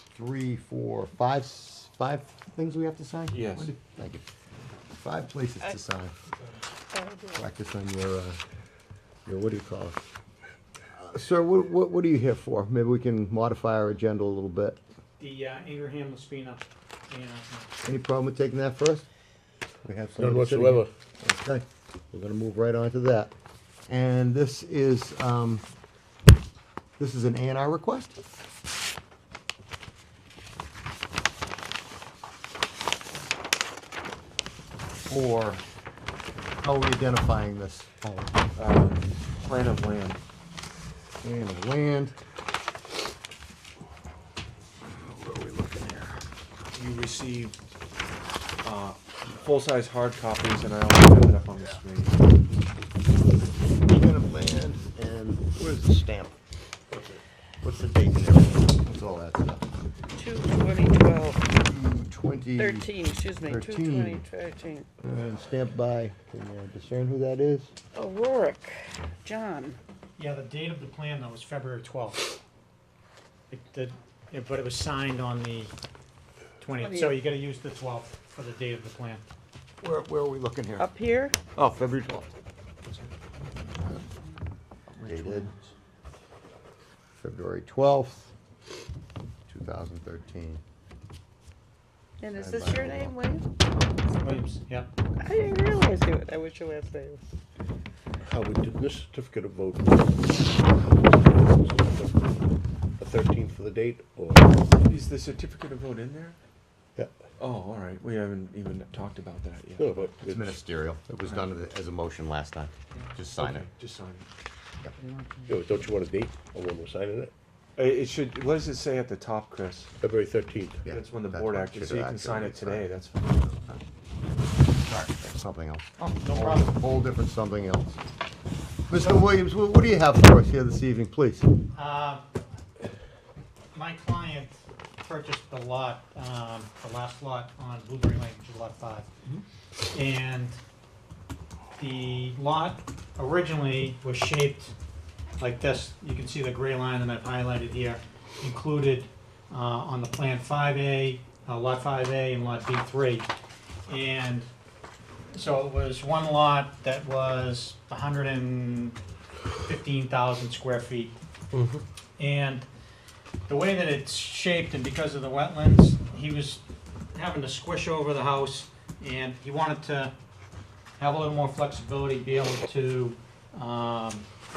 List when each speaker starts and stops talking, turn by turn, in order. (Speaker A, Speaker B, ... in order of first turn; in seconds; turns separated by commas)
Speaker A: 0.2-4.2, Speaker B: 3.3-3.7, Speaker A: 5.0-6.1, Speaker C: 6.9-7.5, Speaker A: 7.3-8.4, Speaker A: 9.3-10.0, Speaker A: 10.9-14.8, Speaker D: 15.2-17.8, Speaker A: 17.9-19.1, Speaker A: 19.8-23.3, Speaker E: 20.2-20.9, Speaker A: 23.9-25.6, Speaker A: 27.0-28.2, Speaker A: 35.1-35.6, Speaker A: 36.6-38.4, Speaker B: 38.6-40.2, Speaker A: 41.2-42.2, Speaker A: 44.9-46.2, Speaker B: 46.7-47.6, Speaker B: 48.6-52.2, Speaker A: 53.9-56.4, Speaker E: 56.9-57.2, Speaker A: 57.6-59.6, Speaker C: 60.1-61.5, Speaker A: 61.6-64.2, Speaker C: 62.6-64.9, Speaker A: 65.0-67.7, Speaker C: 67.9-69.8, Speaker D: 70.2-72.3, Speaker D: 73.5-75.7, Speaker D: 76.6-79.2, Speaker C: 76.8-77.2, Speaker A: 79.8-80.9, Speaker C: 80.8-81.4, Speaker A: 81.5-82.3, Speaker B: 82.9-83.1, Speaker A: 84.9-85.5, Speaker B: 85.0-85.5, Speaker A: 87.2-88.3, Speaker A: 89.5-90.6, Speaker C: 92.2-93.5, Speaker A: 92.3-93.2, Speaker D: 94.2-94.9, Speaker C: 95.2-97.2, Speaker E: 98.2-102.4, Speaker E: 103.0-104.6, Speaker B: 104.8-106.4, Speaker B: 107.4-110.1, Speaker E: 109.8-110.6, Speaker A: 110.2-113.7, Speaker B: 113.3-114.3, Speaker D: 115.0-115.7, Speaker E: 115.5-117.3, Speaker B: 117.8-119.9, Speaker E: 120.0-120.8, Speaker A: 120.8-122.9, Speaker B: 120.9-123.5, Speaker A: 123.5-123.8, Speaker A: 124.8-128.0, Speaker D: 126.0-126.8, Speaker A: 128.9-131.5, Speaker D: 131.8-132.2, Speaker D: 133.8-139.1, Speaker D: 139.9-140.6, Speaker D: 141.8-144.7, Speaker D: 145.4-153.3, Speaker D: 153.9-154.5, Speaker D: 155.3-159.0, Speaker D: 159.7-161.2, Speaker E: 161.5-161.8, Speaker D: 162.2-162.7, Speaker D: 163.5-166.6, Speaker D: 167.1-170.1, Speaker D: 171.0-174.3